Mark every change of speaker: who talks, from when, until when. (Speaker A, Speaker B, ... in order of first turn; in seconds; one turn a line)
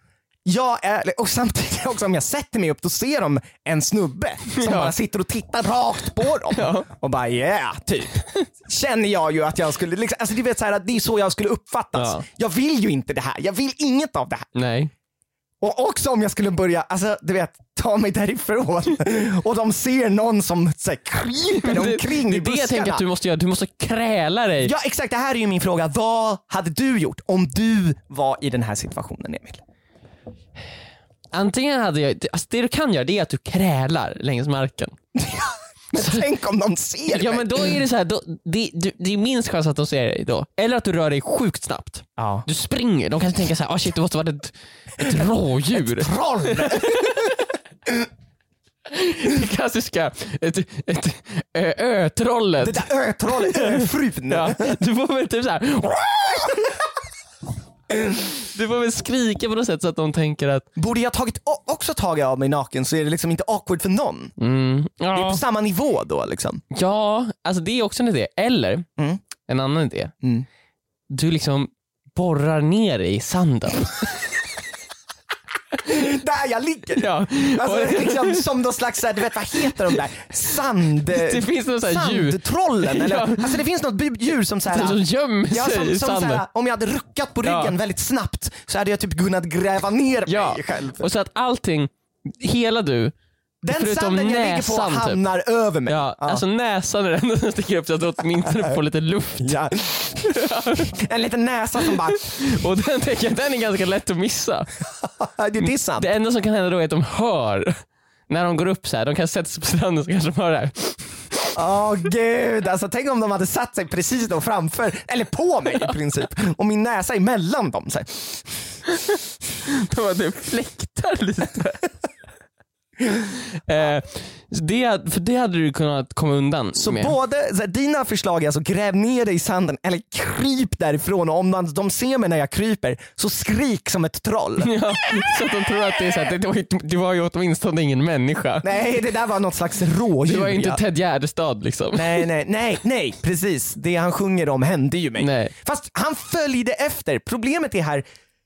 Speaker A: 0.4-14.5
Speaker B: 4.5-4.9
Speaker B: 6.5-6.9
Speaker B: 11.9-12.2
Speaker B: 14.5-14.9
Speaker A: 15.6-23.0
Speaker B: 21.6-24.7
Speaker A: 24.6-29.6
Speaker B: 31.3-35.0
Speaker A: 35.1-37.8
Speaker B: 36.0-36.2
Speaker B: 37.1-47.5
Speaker A: 42.2-42.5
Speaker A: 45.7-47.3
Speaker B: 48.9-56.7
Speaker A: 52.6-54.8
Speaker B: 58.3-60.7
Speaker A: 60.8-64.3
Speaker B: 64.4-65.4
Speaker A: 65.1-66.6
Speaker B: 66.7-68.8
Speaker B: 69.4-70.1
Speaker B: 71.1-74.4
Speaker A: 75.8-85.0
Speaker B: 77.0-78.5
Speaker B: 79.5-79.9
Speaker B: 81.1-83.6
Speaker B: 84.7-86.4
Speaker A: 85.5-91.1
Speaker B: 87.4-87.7
Speaker B: 90.3-93.1
Speaker A: 93.6-96.4
Speaker B: 93.7-95.2
Speaker B: 95.9-99.6
Speaker A: 99.4-102.4
Speaker B: 100.2-100.9
Speaker B: 101.8-104.7
Speaker A: 105.0-106.1
Speaker B: 105.6-111.2
Speaker A: 111.5-118.6
Speaker B: 118.8-121.9
Speaker B: 123.6-127.1
Speaker A: 126.8-135.3
Speaker B: 134.6-138.7
Speaker A: 138.6-140.8
Speaker B: 140.2-142.2
Speaker A: 141.9-148.0
Speaker B: 145.2-145.5